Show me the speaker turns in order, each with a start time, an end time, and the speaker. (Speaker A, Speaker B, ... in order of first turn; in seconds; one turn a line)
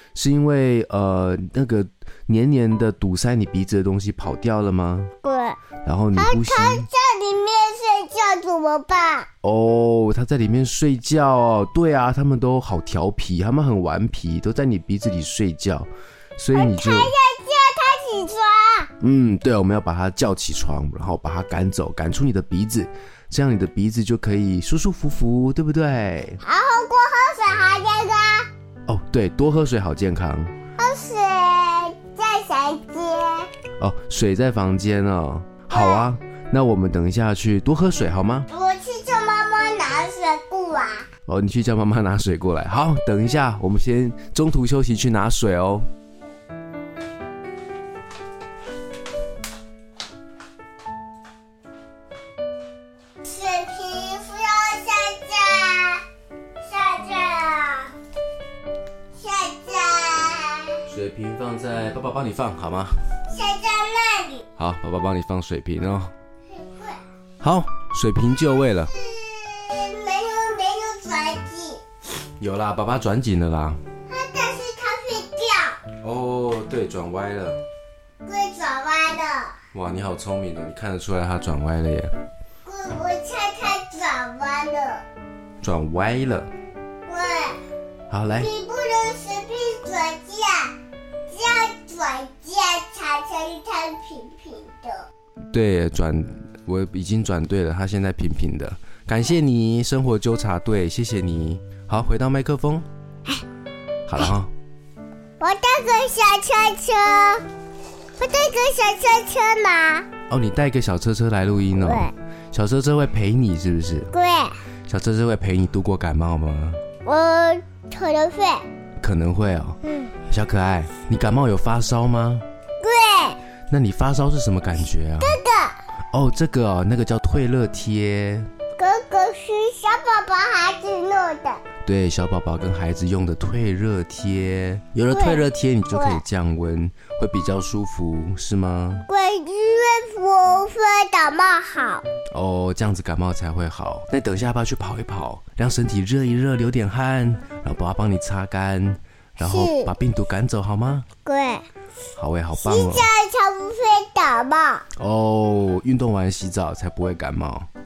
Speaker A: 0.1-5.1
Speaker B: 5.2-5.6
Speaker A: 5.8-6.9
Speaker B: 6.1-9.3
Speaker A: 9.4-17.1
Speaker B: 16.5-18.9
Speaker A: 19.0-26.4
Speaker B: 26.4-28.5
Speaker A: 28.9-30.5
Speaker B: 30.8-33.5
Speaker A: 33.8-38.5
Speaker B: 35.7-36.1
Speaker B: 38.5-41.1
Speaker A: 41.3-45.9
Speaker B: 53.2-56.0
Speaker B: 56.6-57.9
Speaker B: 59.1-60.8
Speaker A: 60.9-63.0
Speaker B: 63.3-64.5
Speaker A: 64.6-66.1
Speaker B: 66.5-67.0
Speaker A: 67.4-68.9
Speaker B: 68.9-71.8
Speaker A: 72.4-73.8
Speaker B: 74.1-75.8
Speaker A: 76.0-77.6
Speaker B: 78.2-79.6
Speaker A: 79.7-82.1
Speaker B: 82.6-85.0
Speaker A: 85.6-86.5
Speaker B: 87.1-87.6
Speaker A: 88.1-88.5
Speaker B: 88.3-90.8
Speaker B: 91.3-95.1
Speaker A: 95.5-102.9
Speaker A: 104.1-104.5
Speaker B: 105.4-107.4
Speaker B: 108.2-110.1
Speaker A: 110.3-114.1
Speaker B: 111.8-112.1
Speaker B: 114.1-114.6
Speaker A: 114.9-116.8
Speaker B: 117.0-118.6
Speaker A: 119.0-122.5
Speaker B: 119.9-120.1
Speaker B: 122.8-123.4
Speaker A: 123.7-125.4
Speaker B: 125.2-125.8
Speaker A: 126.1-128.5
Speaker B: 128.8-131.6
Speaker A: 131.8-139.1
Speaker B: 135.1-136.2
Speaker B: 139.1-142.1
Speaker A: 142.3-151.1
Speaker B: 149.4-149.9
Speaker B: 151.2-151.7
Speaker A: 152.2-153.1
Speaker B: 152.6-154.9
Speaker A: 155.0-157.7